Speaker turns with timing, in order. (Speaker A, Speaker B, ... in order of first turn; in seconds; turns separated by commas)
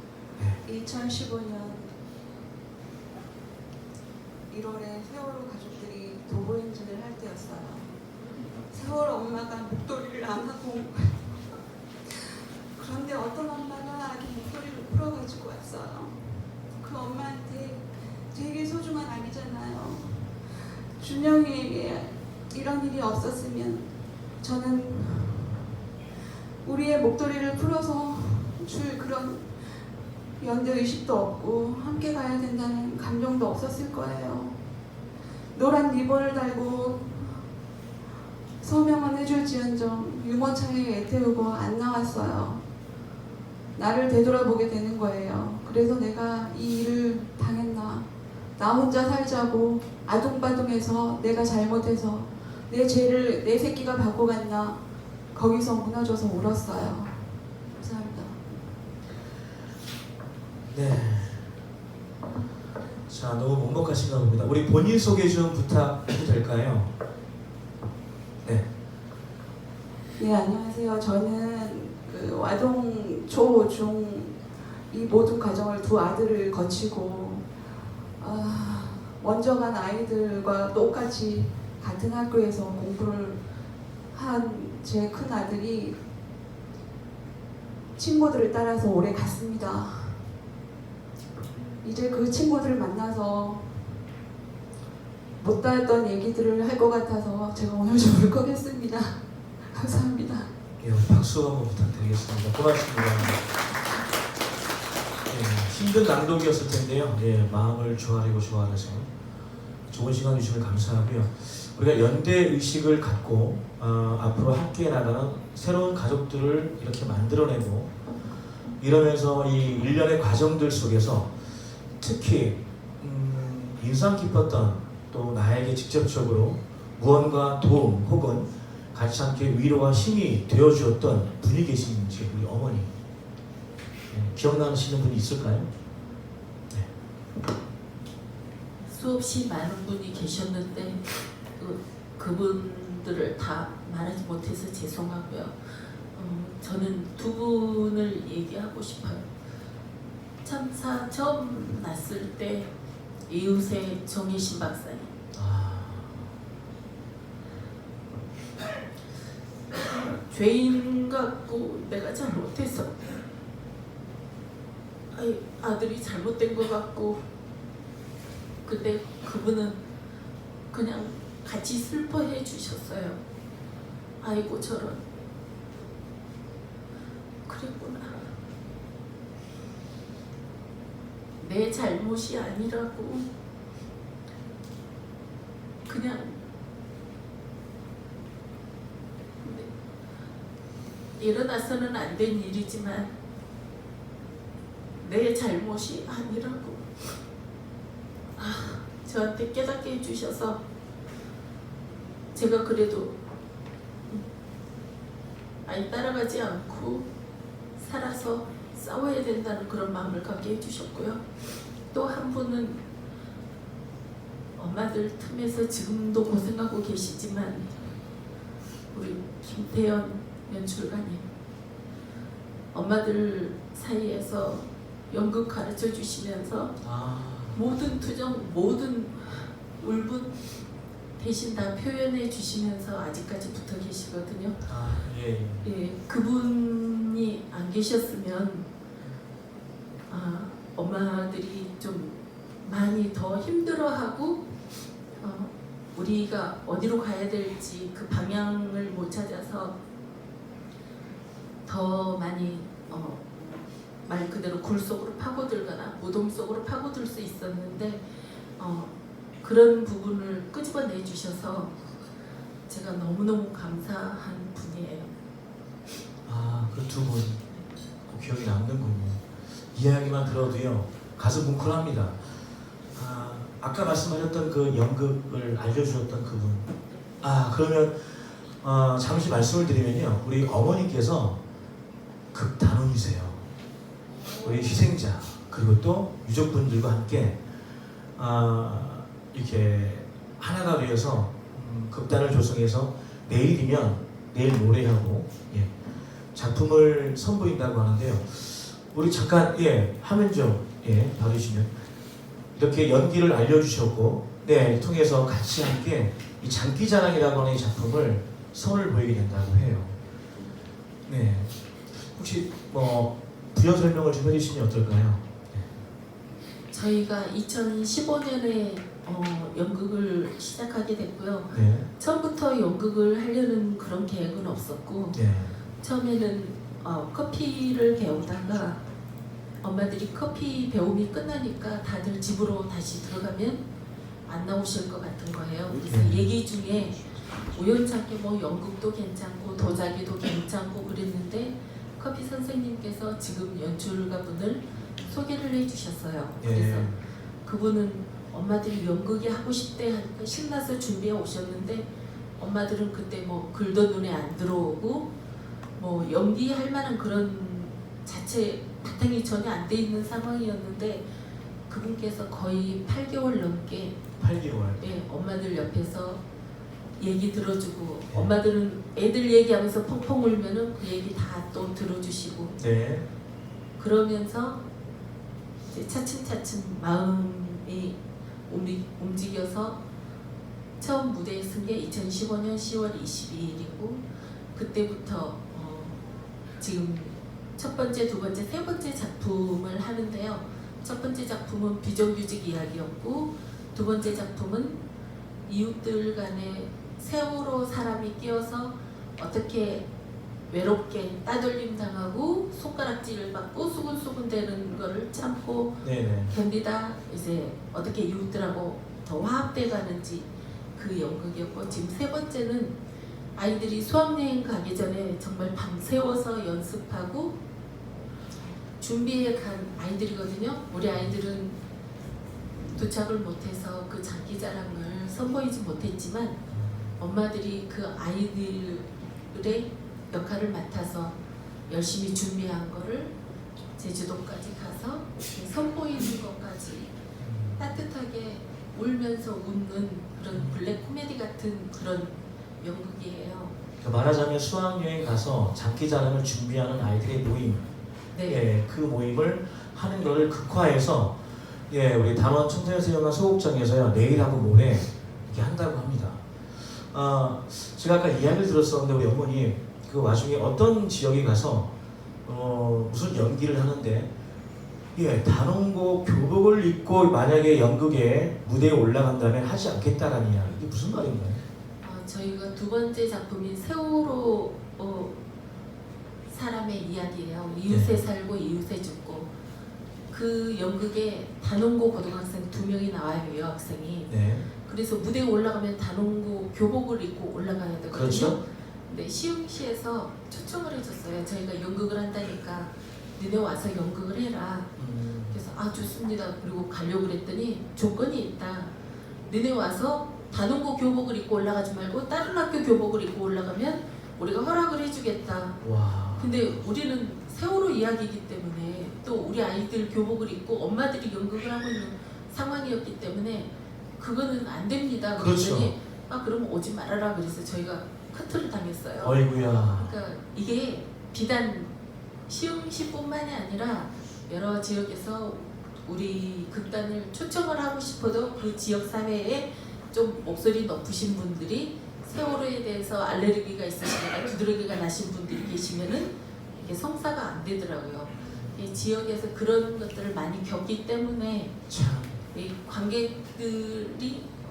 Speaker A: 0.6-1.9, Speaker A: 4.5-7.9, Speaker A: 8.7-11.4, Speaker A: 12.8-16.2, Speaker A: 16.7-20.3, Speaker A: 21.0-23.9, Speaker A: 24.4-25.6, Speaker A: 26.6-29.7, Speaker A: 30.4-34.6, Speaker A: 35.5-37.4, Speaker A: 38.6-42.6, Speaker A: 43.7-48.0, Speaker A: 48.6-54.8, Speaker A: 55.3-57.2, Speaker A: 57.8-58.5, Speaker B: 60.7-61.5, Speaker B: 63.1-66.9, Speaker A: 70.2-77.5, Speaker A: 78.2-83.4, Speaker A: 84.1-86.0, Speaker A: 88.0-90.2, Speaker A: 91.8-93.7, Speaker A: 95.4-100.5, Speaker B: 100.8-103.4, Speaker B: 105.3-109.1, Speaker B: 109.9-117.9, Speaker B: 118.8-121.3, Speaker B: 122.0-132.9, Speaker B: 134.1-135.7, Speaker C: 138.8-149.2, Speaker C: 150.4-152.7, Speaker C: 153.3-155.1, Speaker B: 155.3-156.3, Speaker C: 159.9-163.2, Speaker C: 165.1-167.2, Speaker C: 168.6-169.8, Speaker C: 170.7-173.2, Speaker C: 174.2-175.0, Speaker C: 177.5-178.2, Speaker C: 181.4-183.2, Speaker C: 185.9-186.4, Speaker C: 189.4-189.7, Speaker C: 191.2-193.1, Speaker C: 195.0-197.1, Speaker C: 198.3-200.6, Speaker C: 202.3-203.1, Speaker C: 205.6-207.1, Speaker C: 207.8-211.2, Speaker C: 211.9-212.8, Speaker C: 214.6-217.8, Speaker C: 218.9-221.2, Speaker C: 222.7-226.7, Speaker B: 226.8-227.6, Speaker C: 227.5-230.5, Speaker C: 231.2-234.6, Speaker B: 234.7-235.7, Speaker C: 235.6-238.7, Speaker C: 240.1-244.4, Speaker C: 245.2-249.7, Speaker C: 251.7-253.3, Speaker C: 254.0-258.0, Speaker C: 258.6-261.7, Speaker C: 262.7-265.1, Speaker B: 266.2-267.4, Speaker B: 268.1-272.4, Speaker B: 272.9-276.7, Speaker B: 277.2-281.4, Speaker B: 282.3-283.4, Speaker B: 284.3-287.4, Speaker B: 288.1-295.7, Speaker B: 296.3-301.7, Speaker B: 302.5-309.9, Speaker B: 311.1-311.5, Speaker B: 312.0-315.7, Speaker C: 316.7-325.2, Speaker B: 321.5-321.9, Speaker B: 325.1-325.5, Speaker C: 325.8-328.8, Speaker C: 329.6-333.6, Speaker C: 334.3-346.9, Speaker B: 335.9-336.3, Speaker B: 346.4-347.0, Speaker C: 347.4-351.9, Speaker C: 352.4-355.1, Speaker C: 355.8-361.0, Speaker C: 361.7-364.0, Speaker B: 364.2-364.9, Speaker C: 364.8-366.2, Speaker C: 367.0-372.6, Speaker B: 372.6-373.1, Speaker C: 373.8-374.6, Speaker C: 375.6-377.9, Speaker C: 378.5-379.8, Speaker C: 380.8-384.0, Speaker C: 384.5-386.0, Speaker C: 386.6-394.8, Speaker C: 395.4-399.9, Speaker C: 400.5-412.8, Speaker B: 405.8-406.3, Speaker C: 413.3-417.3, Speaker C: 418.8-421.6, Speaker C: 422.6-426.4, Speaker B: 426.5-427.0, Speaker C: 427.0-431.1, Speaker C: 431.7-433.1, Speaker C: 433.8-436.9, Speaker B: 437.2-437.8, Speaker C: 437.6-443.6, Speaker B: 440.3-440.6, Speaker B: 443.8-447.7, Speaker C: 448.1-448.4, Speaker B: 448.2-461.7, Speaker B: 462.2-464.1, Speaker B: 464.9-471.4, Speaker C: 471.8-475.1, Speaker C: 476.3-479.3, Speaker B: 477.7-478.0, Speaker C: 480.1-484.1, Speaker B: 484.1-484.5, Speaker C: 484.6-494.7, Speaker B: 487.9-488.4, Speaker B: 494.8-495.4, Speaker C: 495.3-498.7, Speaker C: 499.3-505.6, Speaker B: 505.6-506.6, Speaker C: 506.2-521.7, Speaker B: 515.1-515.7, Speaker B: 519.0-519.9, Speaker C: 522.3-541.6, Speaker B: 538.1-538.9, Speaker B: 541.7-542.2, Speaker C: 542.3-544.2